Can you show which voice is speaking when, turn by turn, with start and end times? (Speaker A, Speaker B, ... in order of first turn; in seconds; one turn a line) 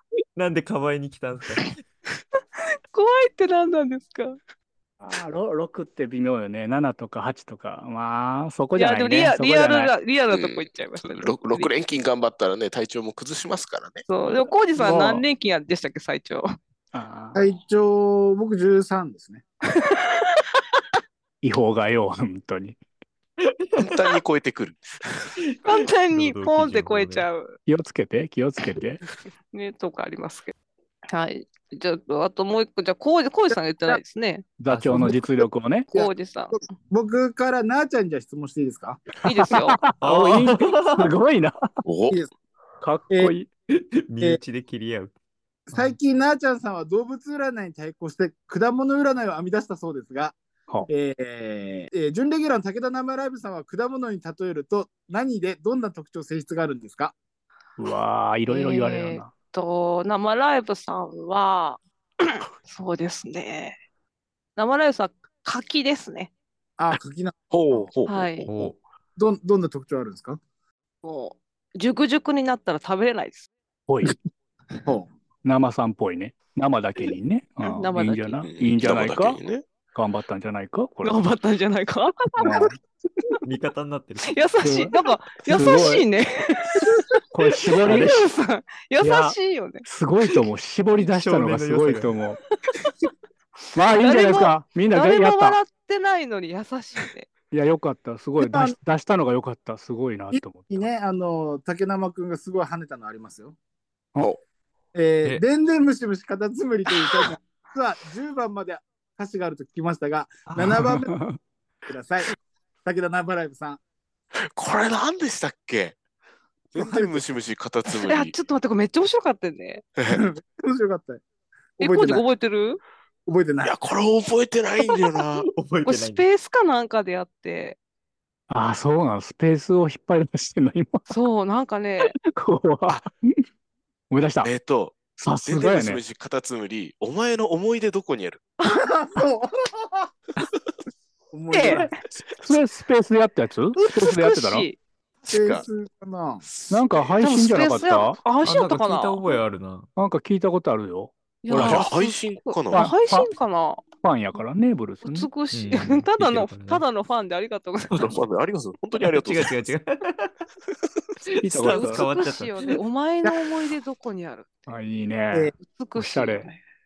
Speaker A: 0.3-1.8
Speaker B: 2.9-4.4
Speaker C: 5.0-9.9
Speaker B: 8.8-11.7
Speaker D: 10.3-14.1
Speaker B: 14.1-16.5
Speaker C: 14.8-15.2
Speaker C: 16.9-17.4
Speaker E: 17.3-19.4
Speaker B: 19.7-20.4
Speaker C: 21.4-22.8
Speaker A: 23.4-24.1
Speaker D: 23.8-25.3
Speaker A: 25.5-27.3
Speaker B: 25.6-27.6
Speaker C: 27.7-29.0
Speaker B: 29.5-30.5
Speaker B: 31.1-34.5
Speaker C: 34.6-35.9
Speaker A: 34.7-35.2
Speaker B: 35.9-36.6
Speaker E: 35.9-39.0
Speaker B: 39.2-39.8
Speaker C: 39.5-41.7
Speaker A: 40.0-41.1
Speaker D: 41.8-42.2
Speaker C: 42.8-43.5
Speaker E: 43.1-43.4
Speaker A: 43.8-45.1
Speaker E: 45.7-50.4
Speaker E: 50.9-57.1
Speaker C: 57.8-59.3
Speaker B: 58.5-63.8
Speaker B: 64.5-66.3
Speaker E: 66.8-67.9
Speaker D: 67.5-68.7
Speaker B: 68.1-68.5
Speaker A: 68.5-68.8
Speaker E: 69.2-70.4
Speaker B: 71.0-73.5
Speaker C: 73.9-74.2
Speaker C: 75.4-79.4
Speaker B: 77.6-78.4
Speaker D: 78.4-79.6
Speaker C: 79.9-81.2
Speaker B: 81.0-82.7
Speaker C: 82.4-82.7
Speaker A: 83.4-84.4
Speaker B: 84.2-87.0
Speaker C: 84.6-84.9
Speaker C: 85.5-86.0
Speaker C: 87.3-88.2
Speaker B: 87.7-89.8
Speaker C: 89.0-92.4
Speaker A: 91.0-92.1
Speaker C: 93.7-95.6
Speaker B: 94.0-97.3
Speaker C: 97.5-100.9
Speaker E: 98.4-98.7
Speaker E: 100.3-103.5
Speaker E: 104.9-111.1
Speaker A: 110.5-110.8
Speaker C: 110.9-111.4
Speaker E: 111.9-112.3
Speaker E: 112.8-113.8
Speaker D: 114.5-116.0
Speaker D: 116.7-118.3
Speaker E: 116.8-117.2
Speaker B: 117.9-119.8
Speaker D: 120.0-120.2
Speaker E: 120.1-121.2
Speaker E: 121.8-122.2
Speaker B: 121.8-122.8
Speaker E: 123.2-123.8
Speaker D: 123.6-125.5
Speaker A: 125.5-126.2
Speaker B: 125.8-127.8
Speaker C: 128.5-131.1
Speaker B: 131.1-132.1
Speaker C: 132.0-133.4
Speaker C: 134.1-134.5
Speaker D: 134.4-138.4
Speaker C: 135.2-136.0
Speaker E: 138.7-140.1
Speaker E: 141.3-141.9
Speaker B: 141.5-142.0
Speaker C: 142.4-144.7
Speaker B: 143.8-144.8
Speaker D: 145.2-145.7
Speaker E: 145.3-146.4
Speaker D: 146.4-147.1
Speaker C: 146.7-148.2
Speaker B: 147.2-149.4
Speaker A: 148.4-149.9
Speaker C: 149.9-151.9
Speaker B: 151.4-153.8
Speaker D: 151.5-152.9
Speaker C: 152.7-153.3
Speaker C: 154.0-155.3
Speaker B: 155.0-158.1
Speaker A: 155.5-156.8
Speaker D: 157.9-159.7
Speaker A: 159.0-160.3
Speaker A: 161.4-162.8
Speaker C: 161.4-162.1
Speaker B: 161.6-164.7
Speaker C: 164.7-166.5
Speaker B: 165.6-166.6